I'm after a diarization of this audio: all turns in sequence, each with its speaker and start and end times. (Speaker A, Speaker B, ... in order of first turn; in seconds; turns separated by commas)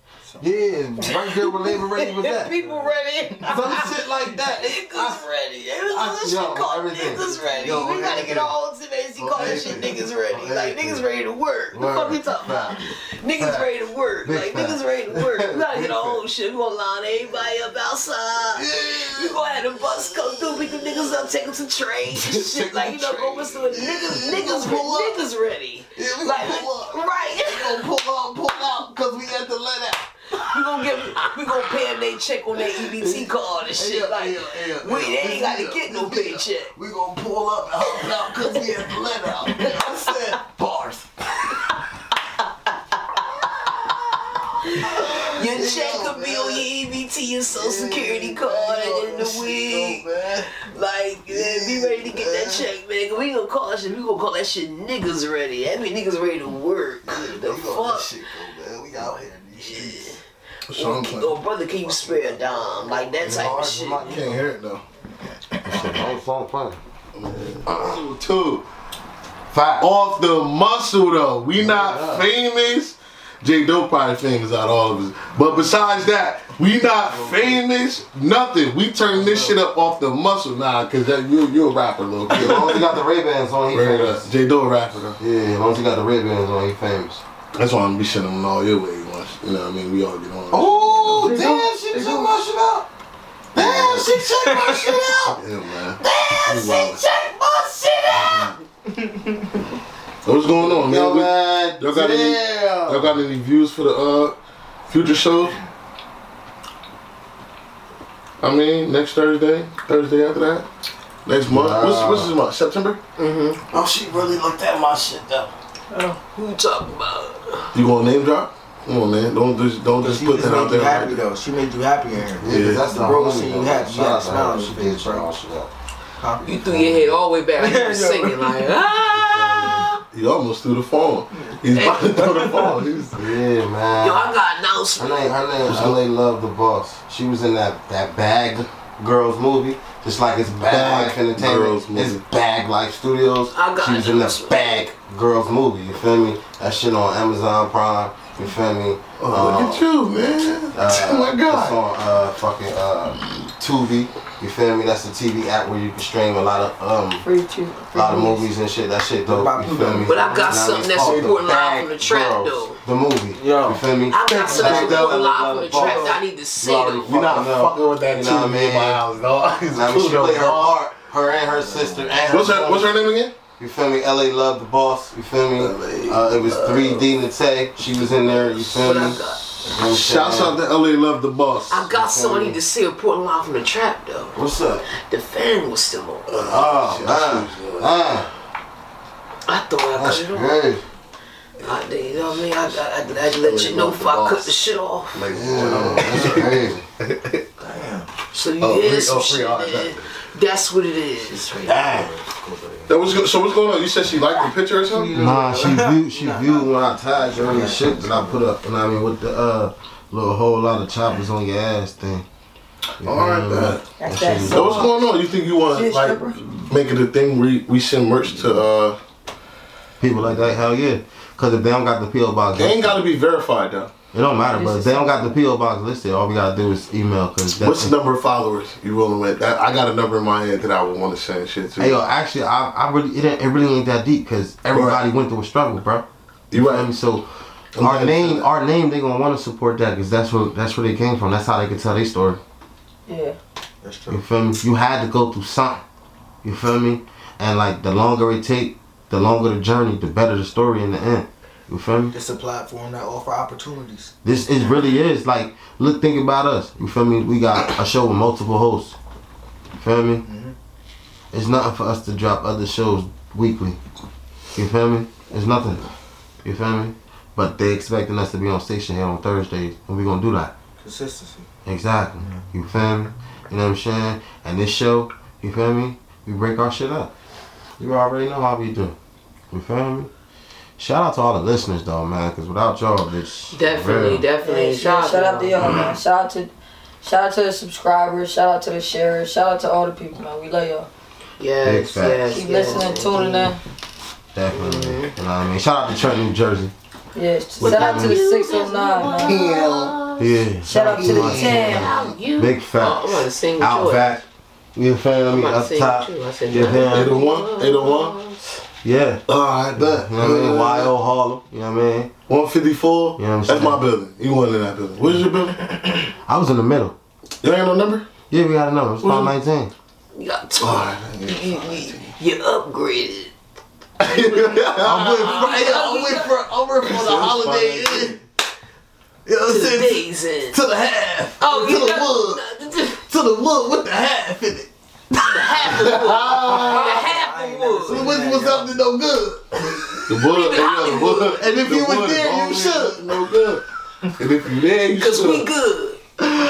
Speaker A: 0.2-0.5, Speaker B: 0.4-2.5, Speaker C: 1.0-27.9, Speaker B: 3.4-5.2, Speaker B: 5.9-8.1, Speaker A: 7.4-8.5, Speaker B: 9.2-11.1, Speaker A: 9.4-10.0, Speaker B: 11.7-12.8, Speaker B: 13.4-15.9, Speaker D: 15.7-16.2, Speaker B: 18.5-21.1, Speaker D: 22.1-23.8, Speaker B: 23.7-25.2, Speaker B: 25.9-30.1, Speaker C: 30.3-36.7, Speaker B: 30.7-31.2, Speaker B: 32.5-41.0, Speaker C: 37.8-40.3, Speaker A: 39.6-40.1, Speaker C: 42.9-43.2, Speaker C: 44.7-60.2, Speaker B: 44.8-46.6, Speaker B: 47.5-50.4, Speaker B: 51.3-52.6, Speaker B: 57.1-59.9, Speaker A: 57.4-58.1, Speaker A: 58.9-60.0, Speaker D: 60.7-61.4, Speaker C: 60.7-64.3, Speaker B: 62.1-64.5, Speaker D: 63.2-64.8, Speaker B: 65.6-66.8, Speaker D: 67.2-68.7, Speaker B: 69.5-69.8, Speaker D: 69.7-82.9, Speaker B: 71.6-72.3, Speaker B: 77.1-77.6, Speaker B: 79.1-79.5, Speaker B: 82.3-84.3, Speaker D: 83.7-85.2, Speaker B: 85.2-87.2, Speaker D: 87.5-91.1, Speaker B: 90.5-92.9, Speaker A: 91.1-91.4, Speaker E: 91.4-92.3, Speaker B: 93.5-95.4, Speaker D: 93.5-94.2, Speaker A: 94.2-94.9, Speaker D: 95.3-97.0, Speaker B: 96.0-98.5, Speaker D: 98.1-98.5, Speaker D: 100.2-104.4, Speaker B: 100.6-103.2, Speaker D: 104.9-105.6, Speaker D: 108.4-110.7, Speaker D: 111.3-113.0, Speaker B: 111.4-112.3, Speaker C: 113.2-113.6, Speaker B: 113.7-115.5, Speaker A: 115.9-116.5, Speaker C: 116.4-117.7, Speaker D: 117.7-121.2, Speaker A: 120.0-125.3, Speaker B: 122.4-125.7, Speaker D: 122.4-123.0, Speaker A: 126.2-127.0, Speaker C: 126.4-130.0, Speaker B: 126.7-127.1, Speaker A: 127.6-128.6, Speaker B: 129.0-129.9, Speaker D: 130.1-133.2, Speaker C: 131.7-132.7, Speaker B: 133.1-134.4, Speaker C: 134.0-135.4, Speaker B: 134.9-149.9, Speaker D: 135.7-136.0, Speaker D: 140.5-142.2, Speaker C: 143.5-144.9, Speaker D: 149.2-151.8, Speaker B: 150.7-157.2, Speaker E: 157.2-158.5, Speaker B: 157.9-169.0, Speaker A: 159.3-160.5, Speaker C: 160.0-162.8, Speaker D: 160.9-161.4, Speaker A: 163.4-163.8, Speaker C: 164.1-167.4, Speaker D: 164.2-165.3, Speaker D: 167.0-170.8, Speaker B: 169.7-172.9, Speaker A: 171.4-172.2, Speaker D: 172.2-173.4, Speaker B: 173.6-180.6, Speaker D: 175.6-177.0, Speaker C: 176.5-177.0, Speaker C: 178.2-179.5, Speaker D: 179.8-181.9, Speaker C: 181.7-184.4, Speaker B: 181.9-182.6, Speaker B: 184.3-184.9, Speaker C: 184.9-186.3, Speaker D: 186.3-188.0, Speaker B: 186.5-188.3, Speaker C: 189.5-190.6, Speaker B: 189.9-190.8, Speaker C: 191.6-195.3, Speaker D: 193.3-194.6, Speaker D: 195.1-197.4, Speaker B: 195.3-196.8, Speaker A: 197.6-198.1, Speaker C: 198.3-202.0, Speaker D: 198.6-200.0, Speaker A: 201.2-203.0, Speaker B: 201.7-202.1, Speaker D: 202.9-205.2, Speaker A: 204.9-208.6, Speaker B: 205.1-212.3, Speaker B: 213.0-214.9, Speaker D: 213.0-219.0, Speaker E: 214.0-215.0, Speaker E: 215.7-216.4, Speaker B: 220.0-223.0, Speaker D: 222.6-223.9, Speaker B: 224.1-227.9, Speaker E: 224.5-225.3, Speaker D: 227.5-232.1, Speaker B: 231.8-237.3, Speaker D: 234.7-235.0, Speaker D: 236.5-236.9, Speaker D: 237.8-238.5, Speaker B: 237.8-242.4, Speaker E: 243.1-243.4, Speaker A: 243.8-244.2, Speaker B: 244.1-245.8, Speaker B: 246.4-252.2, Speaker A: 252.1-254.1, Speaker B: 254.2-259.0, Speaker B: 259.8-260.3, Speaker A: 260.2-260.6, Speaker B: 261.3-263.8, Speaker B: 264.6-265.8, Speaker B: 266.4-270.5, Speaker A: 270.8-271.5, Speaker B: 271.6-277.1, Speaker A: 272.2-272.4, Speaker B: 277.8-279.0, Speaker B: 279.5-280.1, Speaker B: 280.8-284.2, Speaker C: 283.5-285.7, Speaker E: 284.4-290.9, Speaker C: 291.4-293.5, Speaker B: 291.6-292.4, Speaker E: 292.3-293.6, Speaker B: 294.4-296.7, Speaker C: 294.5-295.1, Speaker E: 297.1-299.5, Speaker B: 297.6-298.2, Speaker C: 297.6-304.2, Speaker D: 299.1-300.0, Speaker B: 300.2-307.2, Speaker E: 300.6-302.0, Speaker C: 305.3-308.4, Speaker D: 306.7-308.2, Speaker B: 308.8-309.2, Speaker D: 309.3-310.9, Speaker B: 309.8-312.1, Speaker D: 312.3-315.7, Speaker B: 313.2-313.8, Speaker B: 316.1-317.0, Speaker D: 317.4-318.1, Speaker B: 318.3-319.7, Speaker D: 319.0-319.3, Speaker C: 320.1-323.3, Speaker D: 320.6-322.1, Speaker D: 324.0-325.6, Speaker B: 324.8-328.2, Speaker C: 325.3-326.4, Speaker D: 326.8-328.1, Speaker B: 329.3-332.4, Speaker C: 329.4-330.6, Speaker C: 331.4-333.0, Speaker B: 333.0-334.7, Speaker C: 335.1-338.2, Speaker B: 335.3-335.9, Speaker D: 335.7-337.1, Speaker A: 337.0-338.7, Speaker B: 337.9-340.0, Speaker D: 340.1-343.6, Speaker C: 340.2-341.4, Speaker B: 341.3-343.2, Speaker D: 344.2-345.5, Speaker C: 344.9-346.0